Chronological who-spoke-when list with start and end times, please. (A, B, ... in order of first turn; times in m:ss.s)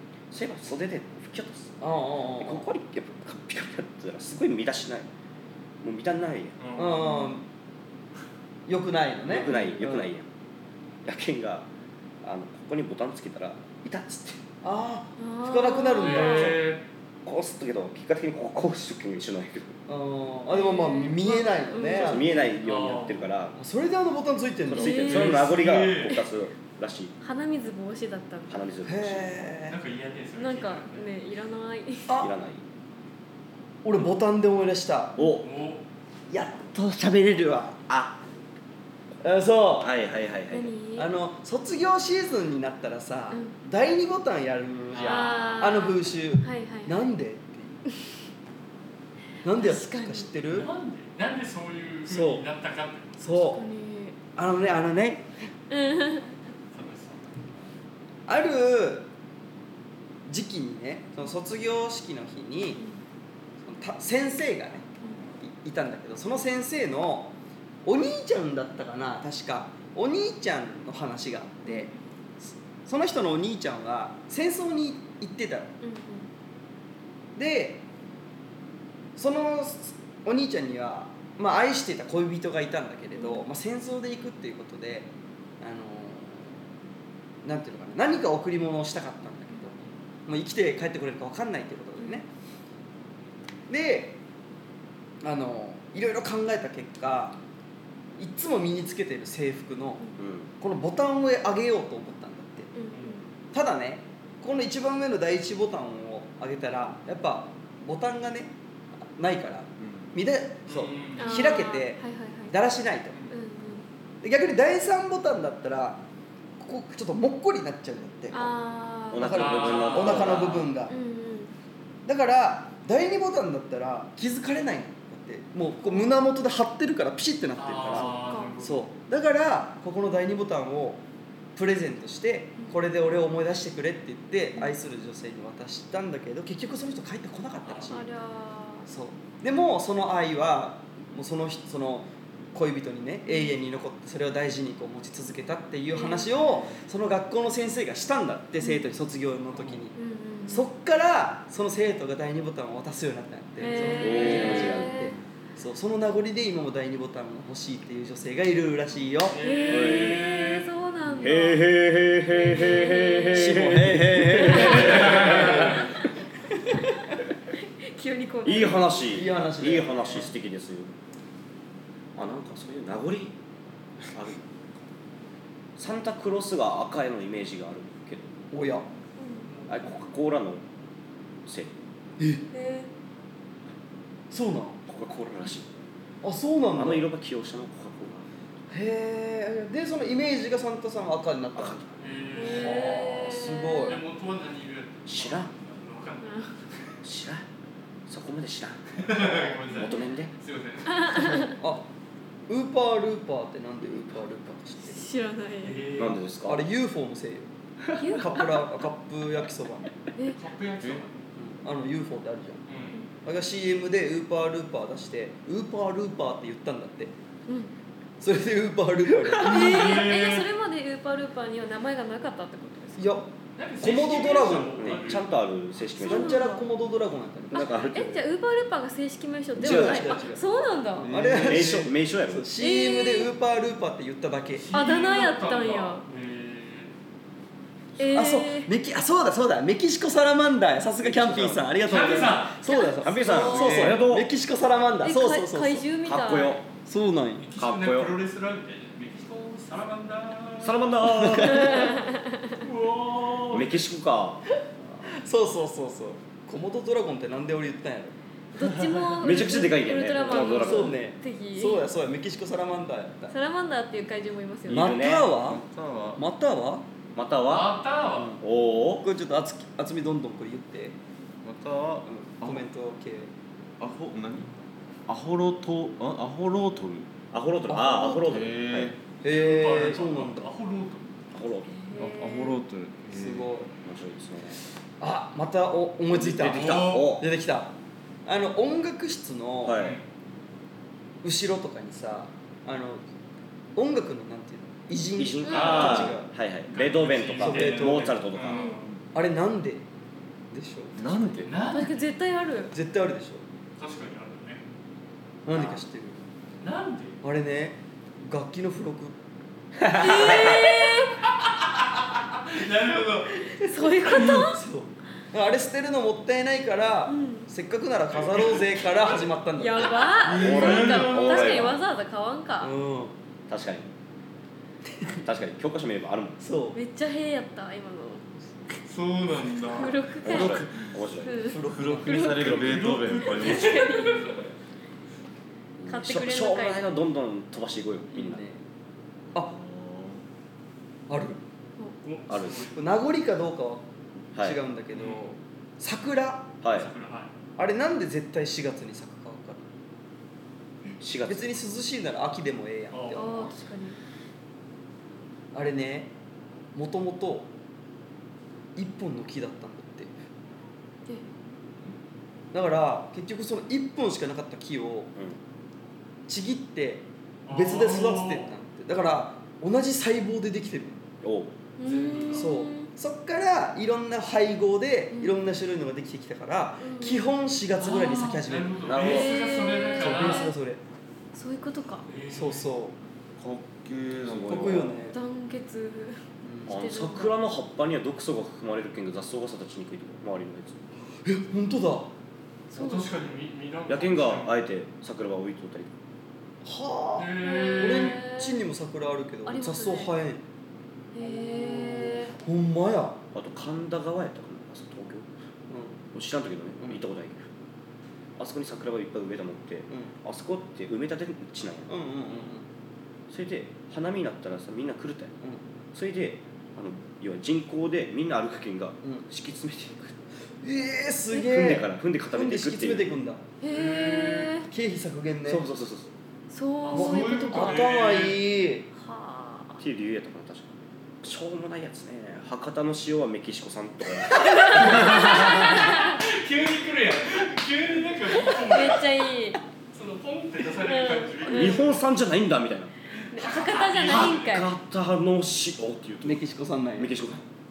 0:00.3-0:01.8 A
0:01.8-0:02.6 B
0:02.4-0:05.1 A
0:05.8-0:06.6 A
0:06.6-0:07.0 C
0:06.8-0:07.4 B
0:07.0-0:07.4 D
0:08.7-0:10.1 B
0:09.2-0:10.3 A
0:09.5-0:09.8 D
0:11.0-0:11.7 A
0:12.2-0:14.4 A
0:14.6-0:16.6 B
0:15.2-0:16.5 D
0:16.0-0:16.8 C
0:17.2-0:19.8 A
0:19.9-0:22.4 B
0:20.5-0:22.2 D
0:21.8-0:23.6 A
0:22.6-0:23.3 C
0:23.6-0:25.4 B
0:24.7-0:27.1 A
0:24.8-0:25.4 D
0:24.9-0:26.2 C
0:27.2-0:28.6 D
0:28.5-0:29.5 A
0:28.8-0:29.8 B
0:29.7-0:31.1 C
0:30.4-0:32.1 D
0:32.2-0:32.6 A
0:33.8-0:35.2 B
0:35.2-0:35.5 A
0:35.4-0:35.8 C
0:36.3-0:37.8 B
0:37.9-0:38.2 A
0:39.2-0:39.9 B
0:39.8-0:40.7 A
0:40.5-0:41.1 D
0:41.0-0:47.8 B
0:44.9-0:45.8 C
0:45.0-0:47.0 D
0:49.4-0:50.7 B
0:49.6-0:50.3 D
0:50.5-0:53.4 C
0:52.0-0:52.4 B
0:53.2-0:53.6 B
0:53.4-0:54.2 D
0:54.3-0:55.3 B
0:55.7-0:56.3 D
0:56.7-0:57.2 C
0:58.3-0:59.1 B
1:00.2-1:02.8 B
1:03.6-1:04.8 B
1:05.4-1:07.3 B
1:07.8-1:15.7 B
1:11.6-1:11.9 D
1:15.8-1:16.3 D
1:17.4-1:17.8 B
1:19.2-1:26.6 B
1:23.2-1:23.4 D
1:27.4-1:29.8 B
1:30.3-1:32.3 B
1:33.7-1:34.2 B
1:35.2-1:37.4 B
1:38.2-1:40.0 B
1:40.2-1:40.5 A
1:40.6-1:42.7 B
1:42.7-1:43.2 D
1:43.5-1:48.5 B
1:49.1-1:53.2 B
1:49.8-1:50.1 E
1:50.7-1:51.6 C
1:51.2-1:52.6 D
1:53.3-1:53.8 D
1:54.2-1:56.0 B
1:56.6-1:58.5 B
1:58.3-1:59.4 D
1:59.1-2:00.7 A
1:59.2-2:01.0 B
1:59.3-2:00.5 C
2:00.8-2:01.5 D
2:02.0-2:11.0 B
2:05.8-2:06.2 D
2:07.6-2:08.8 C
2:07.9-2:08.6 D
2:11.6-2:18.1 B
2:17.6-2:17.9 C
2:17.9-2:18.9 D
2:18.8-2:29.9 B
2:23.3-2:23.5 D
2:25.9-2:26.7 D
2:29.9-2:30.7 D
2:30.5-2:39.4 B
2:33.6-2:35.2 D
2:33.7-2:34.6 C
2:33.9-2:35.0 A
2:39.3-2:40.6 C
2:39.4-2:41.7 D
2:39.7-2:40.3 A
2:41.2-2:45.9 A
2:42.2-2:43.6 D
2:43.3-2:45.8 B
2:44.3-2:45.8 D
2:47.5-2:49.0 D
2:48.4-2:50.9 A
2:49.1-2:50.2 B
2:52.2-2:53.3 A
2:54.1-2:54.4 A
2:55.8-2:58.3 A
2:58.5-2:58.9 B
2:59.2-2:59.5 D
2:59.7-3:00.6 A
3:01.4-3:01.7 A
3:02.2-3:02.4 B
3:02.5-3:02.9 D
3:04.3-3:04.8 B
3:04.9-3:05.7 A
3:06.2-3:07.1 B
3:06.7-3:08.3 A
3:08.7-3:11.8 B
3:11.6-3:11.9 A
3:12.0-3:13.1 C
3:12.4-3:14.0 D
3:12.4-3:14.0 B
3:13.8-3:16.5 C
3:15.0-3:15.5 A
3:16.2-3:16.5 D
3:17.0-3:17.4 A
3:18.1-3:20.3 A
3:19.0-3:21.5 C
3:19.7-3:20.0 D
3:20.9-3:21.5 D
3:21.4-3:21.9 B
3:22.5-3:25.1 B
3:24.9-3:25.8 D
3:25.6-3:26.2 C
3:26.0-3:26.7 A
3:26.4-3:27.5 B
3:28.0-3:28.6 D
3:28.0-3:29.9 B
3:30.3-3:31.2 C
3:31.4-3:32.6 B
3:32.7-3:33.0 C
3:33.2-3:37.1 B
3:37.5-3:37.7 D
3:38.2-3:40.0 B
3:39.3-3:43.1 D
3:39.4-3:40.5 C
3:43.0-3:45.0 B
3:43.6-3:45.3 C
3:44.8-3:46.4 A
3:46.0-3:46.6 D
3:46.0-3:47.9 B
3:47.5-3:48.2 A
3:47.5-3:51.1 D
3:49.6-3:50.2 A
3:49.6-3:50.4 B
3:51.0-3:54.6 B
3:51.0-3:51.8 E
3:51.3-3:52.5 A
3:52.6-3:53.3 D
3:54.6-3:56.9 C
3:54.7-3:56.0 D
3:58.0-3:58.7 D
3:58.0-4:05.9 B
4:01.0-4:01.7 A
4:01.8-4:02.6 C
4:02.7-4:04.0 D
4:03.0-4:04.3 A
4:05.0-4:06.6 D
4:06.0-4:06.6 A
4:06.8-4:07.4 B
4:07.4-4:11.0 C
4:07.6-4:08.2 A
4:10.6-4:12.0 A
4:11.5-4:12.4 D
4:12.6-4:13.8 C
4:13.5-4:14.4 A
4:15.0-4:18.1 B
4:18.5-4:21.8 D
4:19.2-4:21.0 A
4:20.3-4:23.3 B
4:23.3-4:24.9 D
4:24.7-4:25.3 A
4:24.7-4:25.6 B
4:25.3-4:26.2 E
4:26.2-4:26.8 B
4:27.1-4:27.7 A
4:27.5-4:28.3 C
4:28.1-4:28.4 B
4:28.4-4:29.0 A
4:29.0-4:31.0 B
4:31.4-4:32.6 E
4:32.0-4:33.3 B
4:33.8-4:34.5 E
4:35.1-4:37.1 E
4:37.3-4:38.9 A
4:37.7-4:38.4 B
4:38.2-4:39.0 E
4:39.2-4:40.5 B
4:39.2-4:41.1 C
4:41.3-4:41.7 A
4:41.7-4:42.6 D
4:41.9-4:43.5 E
4:43.1-4:43.7 B
4:43.8-4:44.6 A
4:45.0-4:47.7 B
4:46.1-4:47.2 A
4:46.4-4:47.1 C
4:48.2-4:49.8 B
4:49.6-4:50.0 A
4:49.8-4:50.0 C
4:51.2-4:53.0 B
4:53.8-4:56.3 B
4:55.2-4:58.6 A
4:55.5-4:55.9 D
4:55.5-4:56.1 C
4:56.7-4:59.0 C
4:57.4-4:58.1 B
4:58.5-4:58.8 D
4:59.1-4:59.8 B
5:00.5-5:01.2 B
5:00.9-5:01.6 E
5:01.4-5:02.0 C
5:01.7-5:02.7 D
5:02.7-5:03.4 B
5:03.8-5:04.6 C
5:05.4-5:06.2 B
5:06.6-5:07.2 C
5:07.2-5:09.1 B
5:09.8-5:10.6 B
5:09.9-5:11.2 D
5:10.1-5:10.5 A
5:11.4-5:13.4 C
5:13.5-5:20.1 B
5:13.6-5:14.6 D
5:17.1-5:17.5 D
5:18.2-5:19.1 C
5:19.6-5:22.7 D
5:20.3-5:21.6 C
5:20.3-5:21.8 A
5:20.3-5:21.1 E
5:22.6-5:23.1 B
5:23.5-5:23.9 A
5:25.1-5:26.4 A
5:26.4-5:26.8 B
5:26.7-5:28.2 D
5:28.9-5:30.0 C
5:28.9-5:31.0 E
5:29.6-5:32.6 D
5:30.2-5:31.5 A
5:31.4-5:32.4 B
5:31.6-5:33.8 E
5:32.4-5:33.0 A
5:32.5-5:34.5 C
5:33.1-5:34.4 D
5:35.8-5:38.4 A
5:35.9-5:36.8 D
5:38.1-5:38.6 B
5:39.4-5:40.2 E
5:41.1-5:41.4 B
5:42.0-5:42.7 C
5:42.3-5:42.7 A
5:42.7-5:43.8 B
5:44.4-5:46.5 B
5:44.9-5:45.3 C
5:46.6-5:46.9 A
5:46.7-5:47.3 C
5:47.6-5:49.6 B
5:51.0-5:51.5 A
5:51.2-5:53.5 B
5:52.9-5:53.5 C
5:53.1-5:54.0 D
5:55.5-5:56.1 B
5:56.7-5:57.5 B
5:58.8-6:00.1 B
6:02.5-6:05.1 B
6:06.3-6:11.0 B
6:07.5-6:08.5 C
6:11.2-6:11.5 A
6:11.8-6:12.9 D
6:11.8-6:12.5 C
6:12.3-6:18.8 B
6:15.1-6:15.4 D
6:16.8-6:17.2 D
6:17.8-6:20.5 C
6:18.8-6:19.3 A
6:19.0-6:20.5 D
6:20.0-6:20.8 B
6:21.3-6:22.1 D
6:22.0-6:22.7 C
6:22.3-6:22.9 B
6:23.4-6:25.0 E
6:24.2-6:24.9 A
6:24.4-6:25.2 B
6:25.1-6:27.3 D
6:26.4-6:26.7 B
6:26.7-6:30.8 A
6:31.2-6:32.1 B
6:32.7-6:33.1 D
6:32.7-6:34.5 C
6:33.9-6:35.9 A
6:36.6-6:40.4 B
6:37.2-6:38.2 C
6:37.4-6:38.6 D
6:39.4-6:40.1 D
6:41.1-6:42.3 D
6:41.2-6:43.2 B
6:43.3-6:45.3 A
6:45.7-6:46.0 B
6:46.1-6:47.5 A
6:48.4-6:51.9 A
6:51.9-6:52.6 B
6:53.3-6:55.3 A
6:55.9-7:00.2 A
7:00.6-7:03.4 B
7:01.3-7:03.2 A
7:03.6-7:04.7 D
7:03.7-7:04.6 C
7:04.7-7:05.6 B
7:05.4-7:06.1 A
7:06.5-7:07.8 D
7:06.8-7:08.4 C
7:06.9-7:08.9 B
7:08.9-7:09.8 D
7:09.8-7:15.5 A
7:14.3-7:16.2 D
7:15.1-7:19.2 C
7:18.6-7:19.6 D
7:19.9-7:22.0 C
7:20.8-7:21.8 D
7:21.5-7:22.9 A
7:23.2-7:24.6 C
7:23.3-7:24.7 D
7:24.0-7:26.4 A
7:26.2-7:27.3 B
7:27.0-7:27.4 A